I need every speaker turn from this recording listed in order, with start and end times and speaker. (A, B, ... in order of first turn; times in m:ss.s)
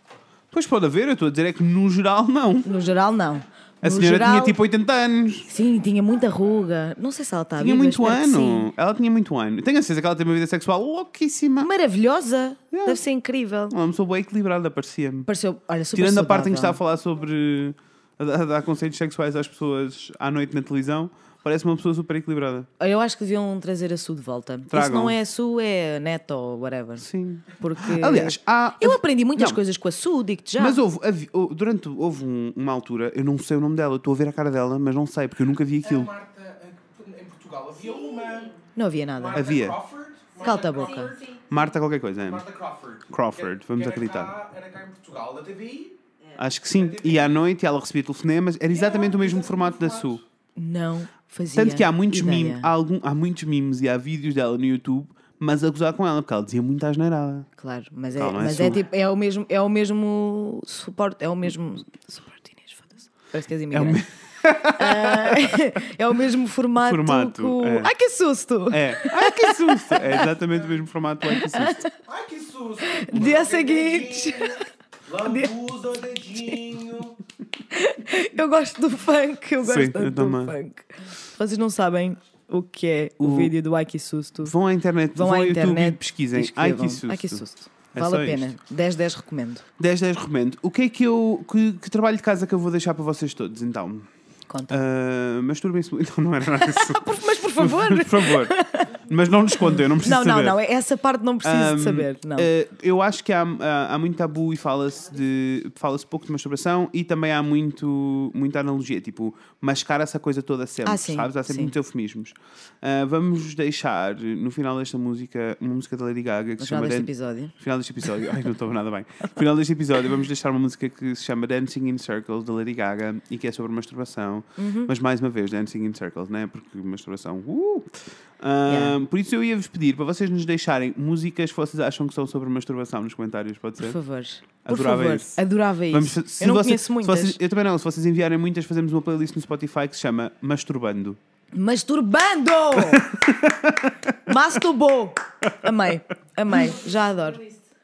0:00.5-0:02.8 A
0:02.6-0:04.6 B
0:03.8-0:05.5 A
0:05.5-0:08.7 B
0:07.6-0:11.7 A
0:11.6-0:13.7 B
0:12.7-0:13.0 A
0:13.7-0:15.3 A
0:15.2-0:16.8 B
0:15.9-0:22.7 A
0:22.8-0:27.0 B
0:24.7-0:25.1 A
0:27.0-0:29.6 A
0:27.6-0:30.8 B
0:30.6-0:36.1 A
0:35.8-0:38.6 C
0:37.8-0:38.6 D
0:38.7-0:39.6 B
0:39.2-0:41.1 C
0:39.3-0:39.8 A
0:40.3-0:41.7 D
0:40.4-0:41.1 B
0:41.5-0:42.4 A
0:42.2-0:46.0 C
0:43.1-0:44.4 A
0:46.4-0:50.2 A
0:46.7-0:47.3 C
0:48.7-0:50.2 C
0:50.6-0:52.7 B
0:51.6-0:57.5 A
0:57.6-1:04.0 B
0:58.1-0:58.8 A
1:03.7-1:05.6 A
1:04.6-1:10.2 B
1:06.8-1:07.9 A
1:08.7-1:11.8 A
1:11.5-1:11.9 B
1:12.0-1:17.2 C
1:12.9-1:14.6 B
1:15.2-1:15.5 B
1:17.7-1:24.5 B
1:19.6-1:20.6 A
1:23.2-1:23.5 A
1:24.4-1:28.5 A
1:25.1-1:29.6 B
1:29.8-1:34.1 A
1:34.5-1:34.8 B
1:34.7-1:40.6 A
1:36.6-1:39.0 B
1:39.6-1:42.5 B
1:41.4-2:14.0 A
1:50.8-1:51.7 B
1:56.6-1:57.5 B
2:04.6-2:04.9 B
2:08.7-2:09.0 B
2:13.8-2:17.4 B
2:14.6-2:21.2 A
2:21.5-2:23.1 B
2:22.8-2:24.3 A
2:24.2-2:27.4 B
2:26.5-2:27.7 D